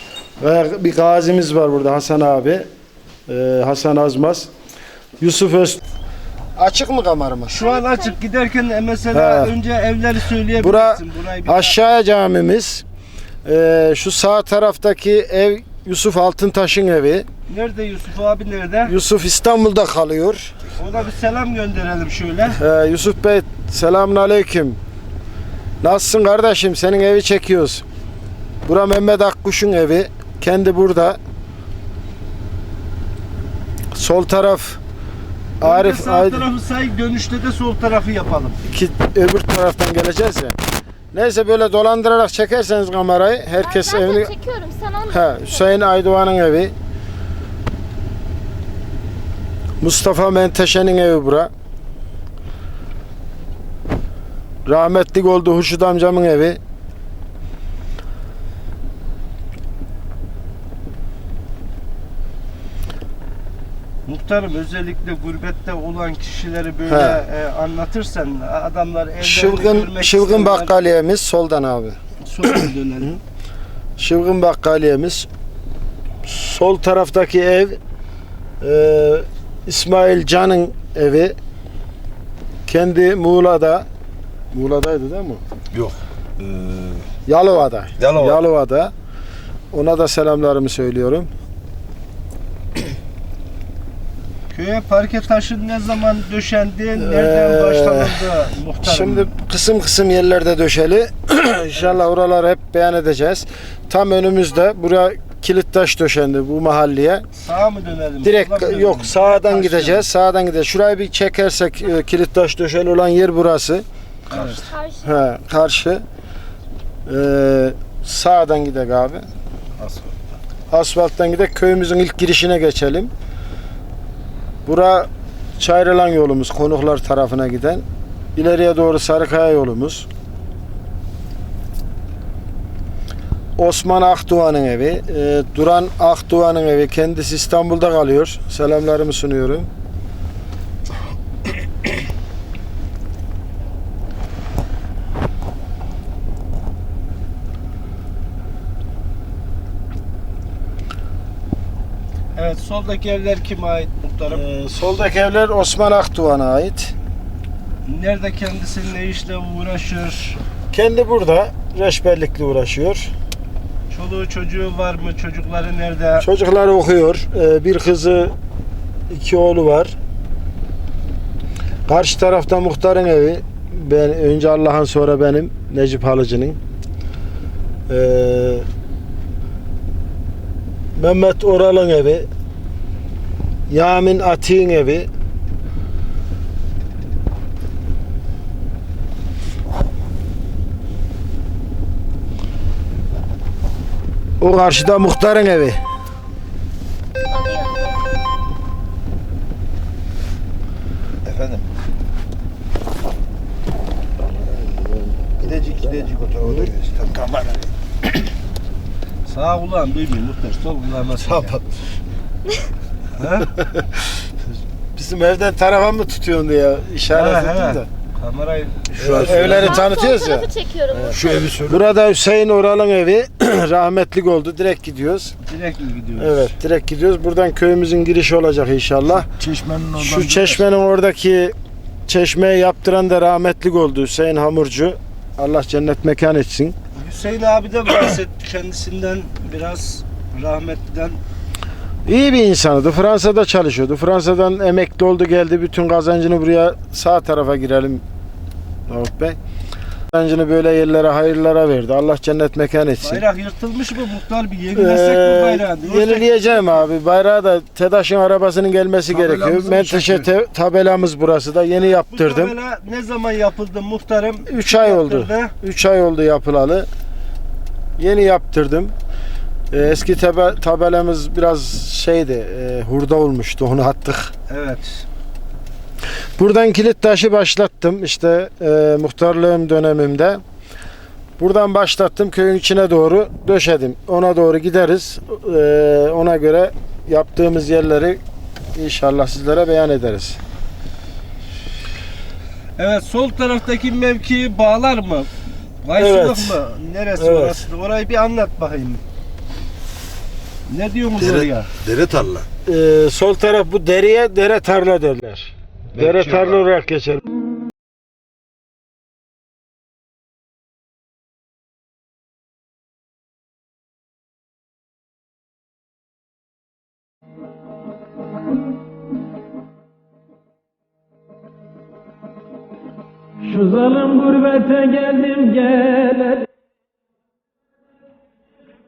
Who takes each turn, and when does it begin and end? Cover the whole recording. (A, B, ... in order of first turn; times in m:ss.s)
0:00.4-0:02.6 A
0:03.3-0:04.5 A
0:05.2-0:05.8 A
0:06.6-0:07.7 A
0:07.5-0:11.8 B
0:09.1-0:09.5 A
0:10.5-0:12.8 A
0:13.4-0:17.2 A
0:17.5-0:18.9 B
0:18.8-0:20.6 A
0:20.7-0:22.6 B
0:22.5-0:24.8 A
0:25.8-0:27.8 A
0:28.6-0:31.2 A
0:33.9-0:34.8 A
0:35.6-0:36.4 A
0:35.6-0:38.6 B
0:38.6-0:40.6 A
0:41.1-0:44.3 A
0:43.6-0:45.7 C
0:45.1-0:46.7 A
0:49.8-0:51.5 A
0:54.6-0:56.6 A
1:04.0-1:10.7 B
1:06.9-1:07.2 A
1:09.2-1:12.0 A
1:12.2-1:13.2 B
1:14.0-1:15.3 A
1:16.2-1:17.8 A
1:18.6-1:21.4 A
1:22.6-1:23.8 A
1:24.5-1:25.4 A
1:25.7-1:27.0 D
1:27.2-1:28.9 A
1:28.0-1:28.4 D
1:29.7-1:31.3 A
1:34.5-1:39.3 B
1:37.0-1:47.2 A
1:47.3-1:50.0 B
1:48.2-1:56.0 A
1:54.3-1:54.7 B
1:54.7-1:55.0 C
1:57.0-1:59.2 A
1:59.8-2:00.1 B
2:00.7-2:03.1 A
2:04.6-2:10.1 A
2:13.6-2:19.7 A
2:32.3-2:34.4 B
2:34.3-2:36.9 A
2:37.8-2:40.4 B
2:40.7-2:43.1 A
2:43.9-2:46.2 B
2:46.2-2:48.3 A
2:49.1-2:49.9 A
2:51.9-2:56.6 A
2:57.9-2:58.6 A
3:01.0-3:02.3 A
3:03.7-3:05.1 A
3:14.4-3:15.8 A
3:17.3-3:18.0 C
3:21.2-3:21.6 D
3:25.3-3:27.7 D
3:29.2-3:31.6 B
3:33.2-3:33.6 B
3:34.9-3:37.9 A
3:37.1-3:39.8 B
3:39.0-3:39.7 D
3:39.0-3:40.5 A
3:39.4-3:41.3 C
3:41.0-3:41.9 D
3:41.6-3:45.4 A
3:45.4-3:46.5 B
3:46.2-3:49.3 A
3:49.4-3:50.6 D
3:50.0-3:51.5 A
3:52.1-3:56.7 A
3:56.9-4:01.2 B
4:02.0-4:08.0 A
4:08.9-4:09.4 A
4:10.1-4:13.2 A
4:13.0-4:16.7 B
4:14.7-4:22.5 A
4:19.2-4:20.2 D
4:21.8-4:25.5 B
4:24.5-4:26.9 A
4:28.0-4:28.9 A
4:29.7-4:34.3 A
4:34.5-4:35.0 B
4:36.4-4:40.4 A
4:41.4-4:48.2 A
4:48.7-4:50.4 A
4:52.8-4:55.3 B
4:55.8-4:59.0 B
4:56.0-4:56.6 A
4:57.2-4:57.6 A
5:00.7-5:01.7 B
5:01.3-5:02.5 D
5:02.6-5:07.2 A
5:23.4-5:26.5 E